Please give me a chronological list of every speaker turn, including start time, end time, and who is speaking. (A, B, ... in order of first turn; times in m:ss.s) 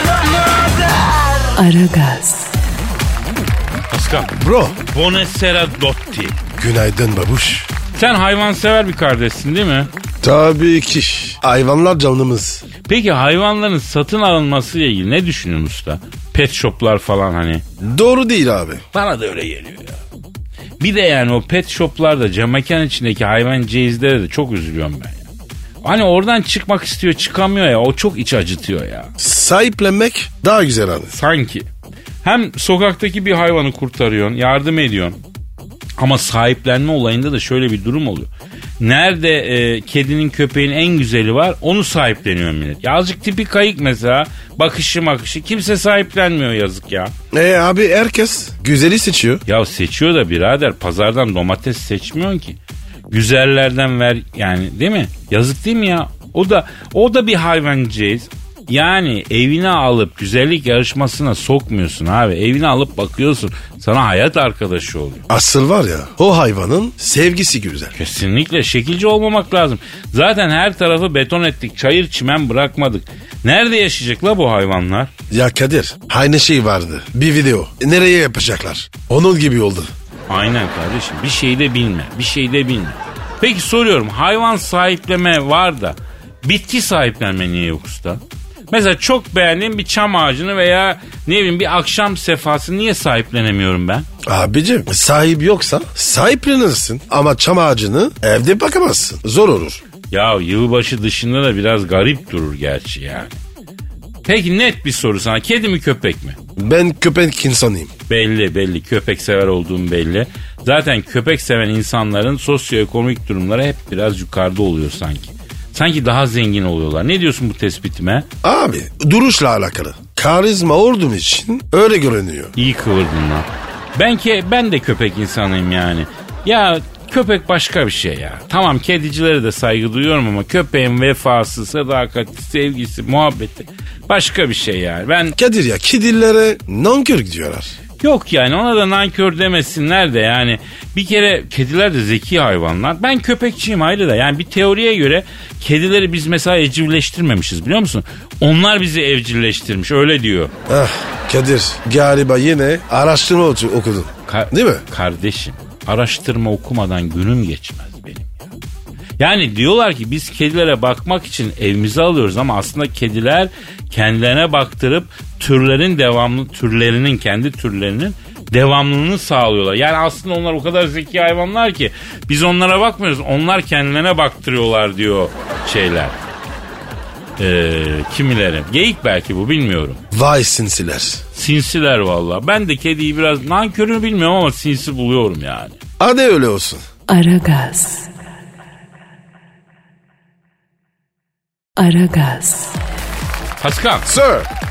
0:01.5-0:02.5 A
0:03.9-0:04.3 B
0:04.4-0:04.8 C
0:04.9-0:06.4 B
0:06.6-0:07.7 C
0:07.9-0:09.9 B
0:10.2-0:12.6 C
0:12.8-0:17.6 B
0:17.8-0:18.8 C
0:18.9-0:20.0 B
0:20.8-0:25.2 B
0:25.8-0:29.1 B
0:29.2-0:31.1 C
0:31.1-0:31.6 B
0:32.2-0:35.2 B
0:36.0-0:47.1 B
0:47.3-0:49.4 C
0:49.5-0:52.6 B
0:53.1-1:05.2 B
1:05.3-1:07.9 C
1:08.0-1:15.1 B
1:15.3-1:19.9 C
1:20.3-1:34.1 B
1:34.2-1:39.8 C
1:40.1-1:43.4 B
1:44.2-1:46.4 B
1:46.6-1:47.9 C
1:48.1-1:58.2 B
1:58.4-2:02.5 C
2:02.6-2:15.4 B
2:15.4-2:17.7 C
2:18.0-2:30.5 B
2:30.7-2:34.8 C
2:34.3-2:38.4 B
2:39.2-2:56.2 B
2:57.4-3:00.0 B
3:00.1-3:01.2 C
3:01.3-3:05.8 B
3:06.0-3:06.8 C
3:07.1-3:08.1 A
3:11.8-3:12.8 A
3:13.6-3:14.1 B
3:14.0-3:14.5 C